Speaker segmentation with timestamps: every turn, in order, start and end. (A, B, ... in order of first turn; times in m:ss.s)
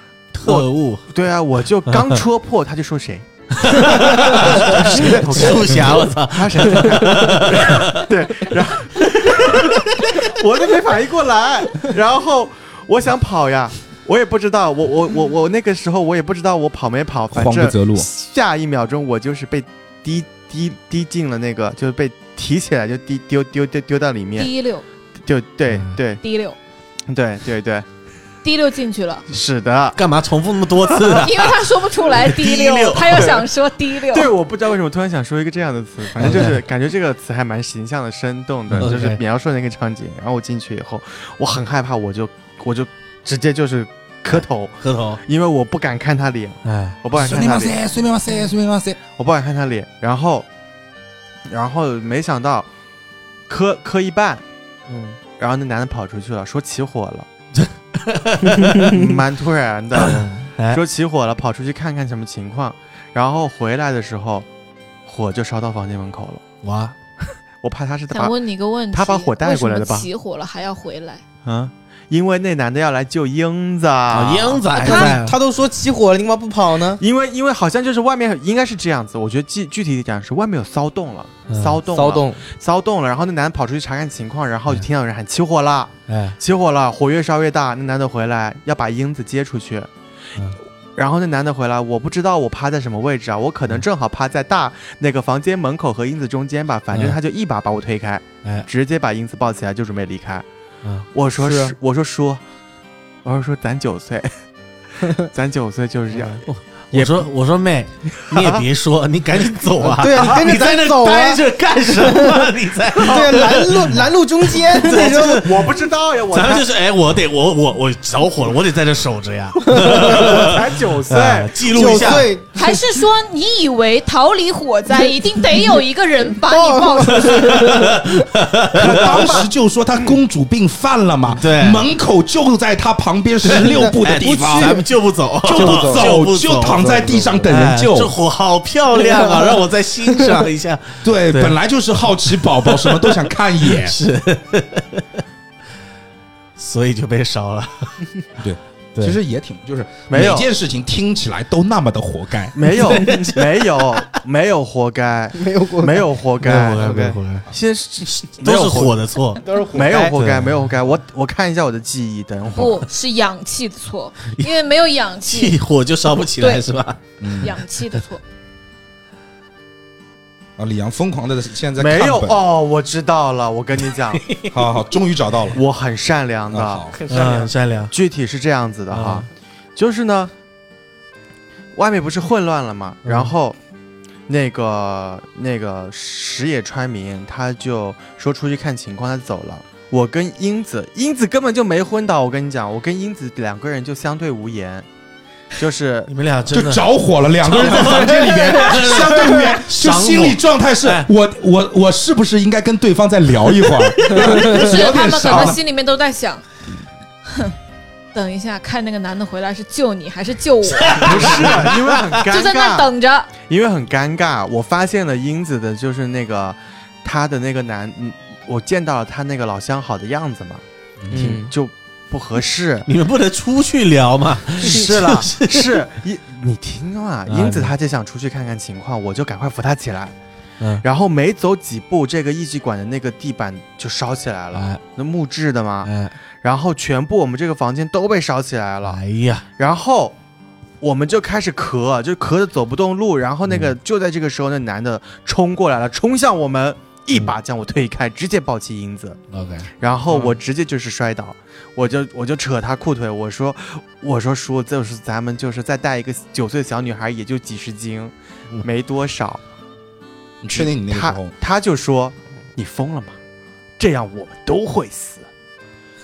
0:00.3-0:01.1 A
0:00.4-0:24.5 B
0:01.9-0:02.2 A
0:03.5-0:10.3 A
0:17.3-0:18.1 C
0:24.4-0:24.8 D
0:25.2-0:26.2 B
0:25.7-0:26.0 A
0:26.2-0:26.6 D
0:27.1-0:27.8 B
0:28.4-0:29.2 D
0:29.3-0:30.0 B
0:29.9-0:33.4 A
0:31.1-0:34.3 D
0:34.0-0:47.8 B
0:36.2-0:36.5 C
0:36.2-0:36.6 A
0:38.7-0:39.2 A
0:44.3-0:45.2 A
0:46.6-0:47.0 A
0:47.1-0:49.0 C
0:49.1-0:50.5 B
0:51.5-0:52.7 B
0:53.5-0:54.4 B
0:55.2-0:57.3 B
0:57.6-0:59.0 A
0:58.6-0:59.1 E
0:58.8-1:04.4 B
0:59.9-1:00.8 A
1:05.0-1:06.4 B
1:06.6-1:07.0 A
1:07.6-1:08.4 B
1:08.1-1:11.2 D
1:08.9-1:10.1 B
1:11.4-1:14.7 B
1:14.1-1:15.4 A
1:14.7-1:15.2 D
1:14.8-1:17.0 E
1:17.0-1:29.9 B
1:21.5-1:21.8 A
1:21.9-1:22.4 E
1:26.1-1:26.4 A
1:31.0-1:40.4 B
1:36.9-1:37.2 A
1:41.1-1:42.4 B
1:41.4-1:41.8 E
1:43.2-1:44.3 B
1:45.1-1:46.4 B
1:46.4-2:02.3 A
1:48.3-1:48.6 B
1:49.8-1:55.4 E
1:54.9-1:56.7 B
1:59.6-2:00.5 E
2:00.0-2:02.2 B
2:01.7-2:03.0 E
2:02.5-2:07.6 D
2:06.4-2:08.2 E
2:07.3-2:09.4 A
2:08.8-2:14.8 C
2:09.0-2:09.4 B
2:11.3-2:11.9 A
2:13.4-2:21.6 A
2:13.4-2:14.8 E
2:15.4-2:18.1 C
2:15.5-2:17.5 E
2:18.9-2:19.6 E
2:21.0-2:24.0 C
2:22.2-2:25.2 A
2:26.6-2:28.0 A
2:28.4-2:32.6 C
2:30.1-2:30.5 B
2:32.5-2:39.0 B
2:32.6-2:34.1 A
2:33.0-2:33.3 E
2:35.4-2:36.0 E
2:36.4-2:37.5 A
2:36.8-2:37.2 E
2:38.0-2:39.4 A
2:39.4-2:40.2 E
2:39.7-2:42.9 B
2:40.1-2:40.7 A
2:42.5-2:45.6 D
2:45.2-2:47.5 A
2:46.4-2:46.6 D
2:47.2-2:47.5 C
2:47.4-2:48.2 D
2:50.6-2:52.4 C
2:51.8-2:54.3 B
2:54.1-2:54.6 A
2:54.5-2:55.6 C
2:55.5-3:00.3 B
2:56.5-2:56.9 C
2:57.1-2:57.9 A
2:58.9-2:59.3 A
3:01.7-3:03.6 B
3:03.0-3:03.3 A
3:04.3-3:14.9 B
3:15.6-3:16.1 B
3:16.1-3:21.1 A
3:16.5-3:25.6 C
3:23.7-3:24.5 A
3:24.1-3:26.4 D
3:27.3-3:27.5 D
3:28.1-3:33.3 D
3:30.7-3:32.0 A
3:31.0-3:42.9 B
3:41.0-3:41.4 C
3:41.1-3:41.5 E
3:42.8-3:45.8 A
3:44.6-3:50.1 B
3:47.3-3:47.7 A
3:50.8-3:59.0 B
3:54.5-3:54.8 A
3:55.8-3:56.2 A
3:58.8-3:59.4 A
3:59.6-4:00.1 B
4:00.8-4:09.2 B
4:03.5-4:03.7 A
4:09.3-4:10.4 A
4:09.8-4:19.4 B
4:20.4-4:21.3 C
4:20.5-4:23.2 B
4:23.8-4:25.3 B